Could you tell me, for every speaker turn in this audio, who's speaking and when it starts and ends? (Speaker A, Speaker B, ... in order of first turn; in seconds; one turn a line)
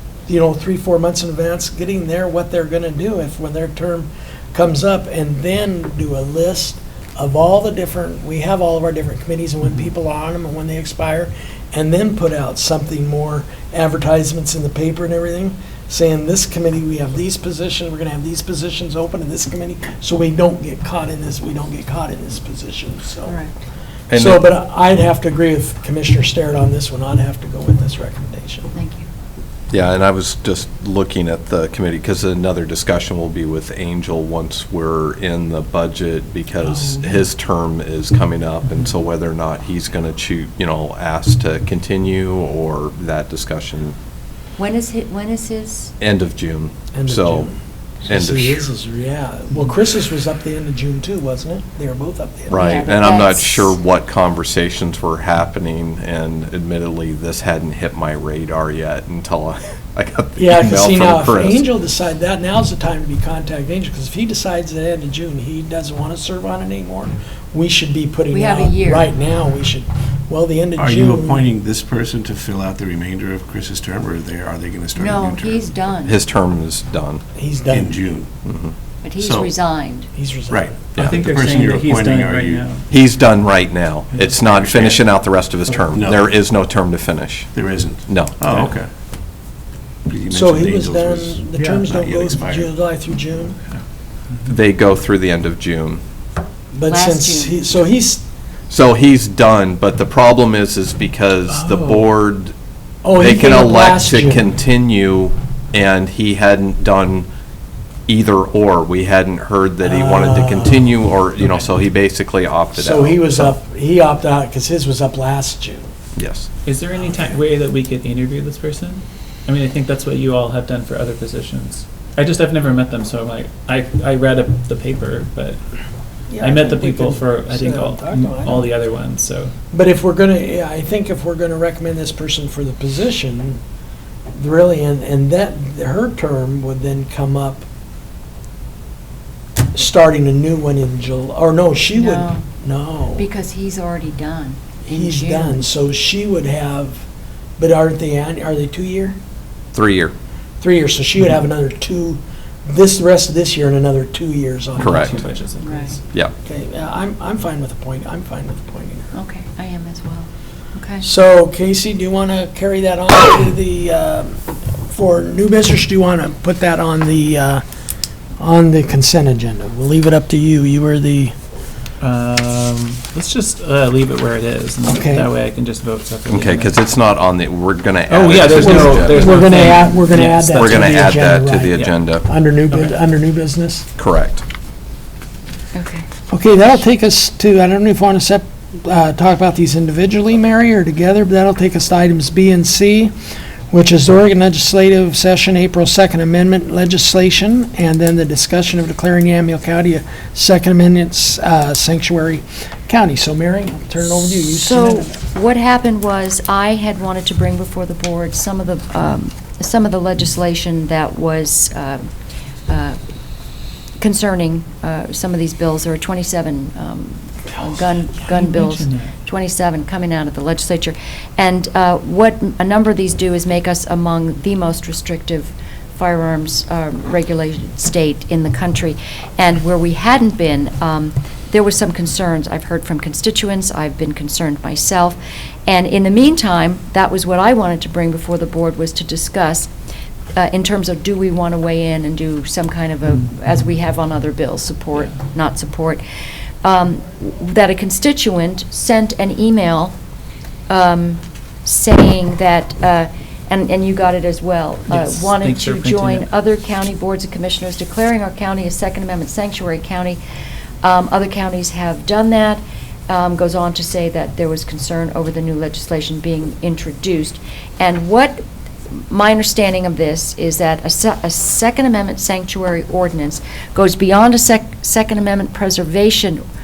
Speaker A: 0.3-23.4
Speaker B: 23.3-23.5
Speaker C: 24.1-24.4
Speaker A: 24.1-28.7
Speaker B: 28.7-29.1
Speaker C: 29.7-44.0
Speaker A: 36.6-37.2
Speaker B: 44.6-45.9
Speaker C: 46.0-47.5
Speaker A: 46.9-52.8
Speaker C: 48.1-48.7
Speaker C: 52.5-61.7
Speaker B: 52.5-53.7
Speaker A: 60.4-71.5
Speaker B: 68.3-69.1
Speaker D: 70.8-75.7
Speaker B: 75.0-76.2
Speaker C: 76.0-77.2
Speaker A: 77.3-78.0
Speaker D: 77.7-78.3
Speaker C: 78.4-78.7
Speaker B: 79.0-80.1
Speaker D: 79.2-79.6
Speaker A: 80.1-80.7
Speaker D: 80.5-82.7
Speaker E: 81.0-82.9
Speaker C: 82.9-87.5
Speaker D: 84.5-85.1
Speaker D: 85.9-86.3
Speaker D: 87.5-88.9
Speaker C: 88.0-88.4
Speaker E: 88.5-88.8
Speaker D: 90.1-92.7
Speaker A: 90.3-93.6
Speaker E: 91.6-91.8
Speaker C: 94.5-96.0
Speaker A: 96.7-98.2
Speaker B: 96.8-97.6
Speaker C: 98.7-102.5
Speaker A: 101.5-102.1
Speaker A: 103.0-104.5
Speaker C: 103.1-107.3
Speaker C: 108.1-113.5
Speaker A: 109.8-111.0
Speaker A: 112.7-115.9
Speaker C: 116.2-116.5
Speaker E: 116.6-125.6
Speaker A: 126.3-128.7
Speaker E: 126.4-129.5
Speaker A: 129.7-133.6
Speaker A: 134.3-137.7
Speaker A: 139.7-143.2
Speaker B: 141.9-142.4
Speaker B: 143.2-145.7
Speaker A: 144.9-147.0
Speaker A: 147.6-149.2
Speaker C: 149.7-150.1
Speaker A: 150.6-155.3
Speaker E: 154.8-156.0
Speaker C: 154.8-155.1
Speaker B: 155.6-156.0
Speaker A: 156.4-159.1
Speaker B: 159.1-161.1
Speaker A: 161.0-167.6
Speaker A: 168.4-171.3
Speaker E: 172.0-176.8
Speaker A: 174.9-175.3
Speaker C: 176.3-179.4
Speaker E: 178.1-180.8
Speaker A: 178.5-183.9
Speaker C: 180.4-182.2
Speaker C: 184.0-184.4
Speaker B: 185.7-186.1
Speaker A: 186.3-193.1
Speaker A: 193.7-205.2
Speaker B: 204.4-212.0
Speaker B: 212.7-213.0
Speaker B: 214.0-239.7
Speaker E: 218.2-219.1
Speaker B: 240.3-246.0
Speaker B: 246.6-249.9
Speaker B: 250.7-260.2
Speaker E: 254.9-256.3
Speaker B: 260.8-268.4
Speaker B: 269.1-276.4